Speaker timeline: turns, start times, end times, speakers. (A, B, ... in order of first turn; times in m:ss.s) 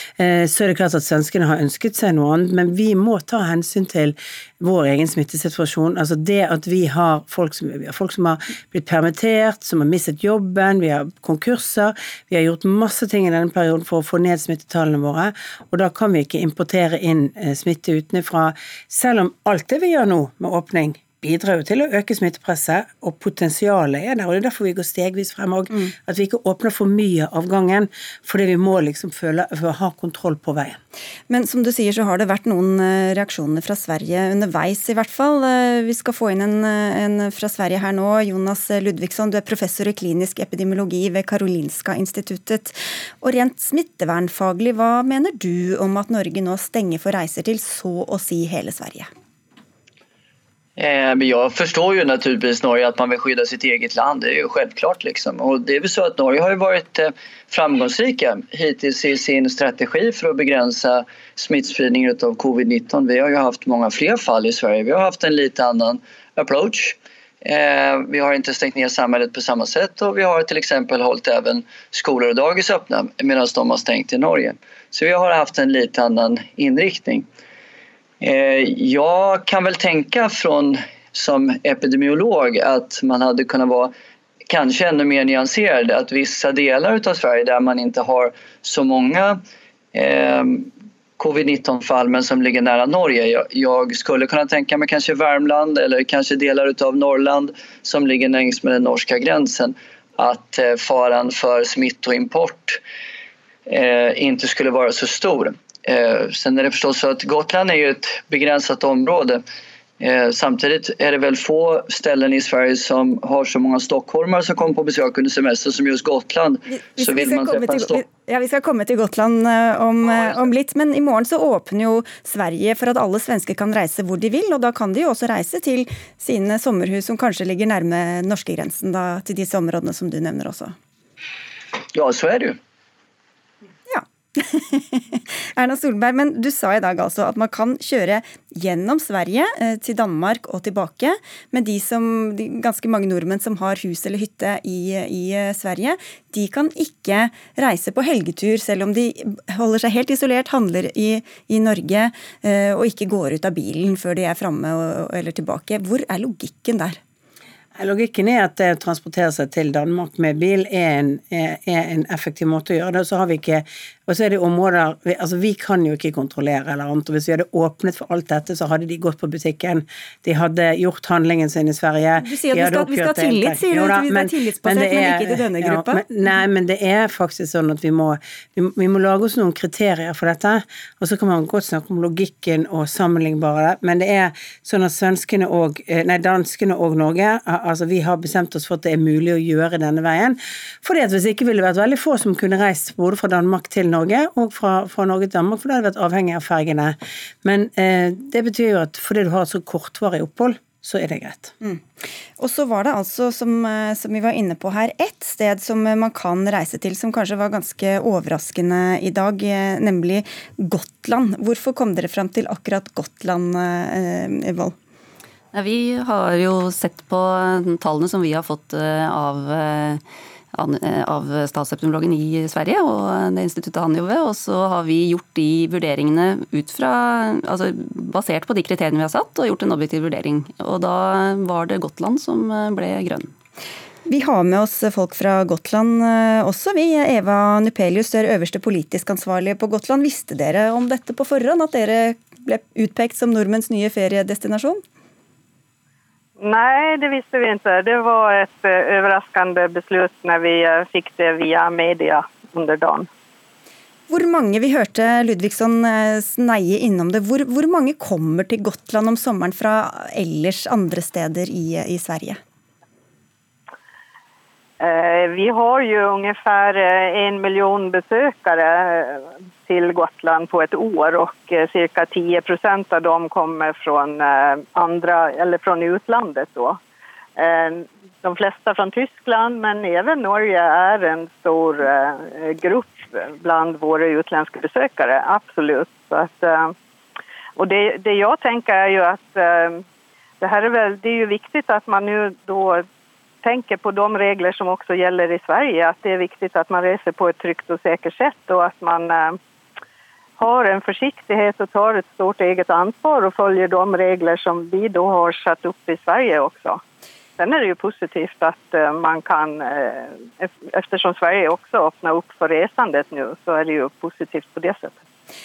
0:00.2-0:30.8 A
0:31.3-0:49.1 B
0:50.8-1:17.3 C
1:18.2-1:23.9 C
1:24.5-1:29.4 C
1:29.9-1:42.8 C
1:43.7-1:49.4 C
1:50.0-1:58.0 C
1:56.7-2:10.7 B
2:11.9-2:12.6 C
2:13.9-2:37.0 B
2:37.8-3:21.5 A
2:52.2-2:56.0 B
3:21.6-3:34.7 B
3:35.5-3:40.0 D
3:40.5-3:53.3 D
3:54.0-4:04.8 B
4:06.4-4:13.1 E
4:14.1-4:22.4 B
4:24.8-4:36.8 E
4:37.4-4:46.7 E
4:47.6-4:49.8 E
4:50.4-4:52.8 E
4:53.4-4:59.4 E
5:00.4-5:06.8 E
5:07.4-5:15.0 E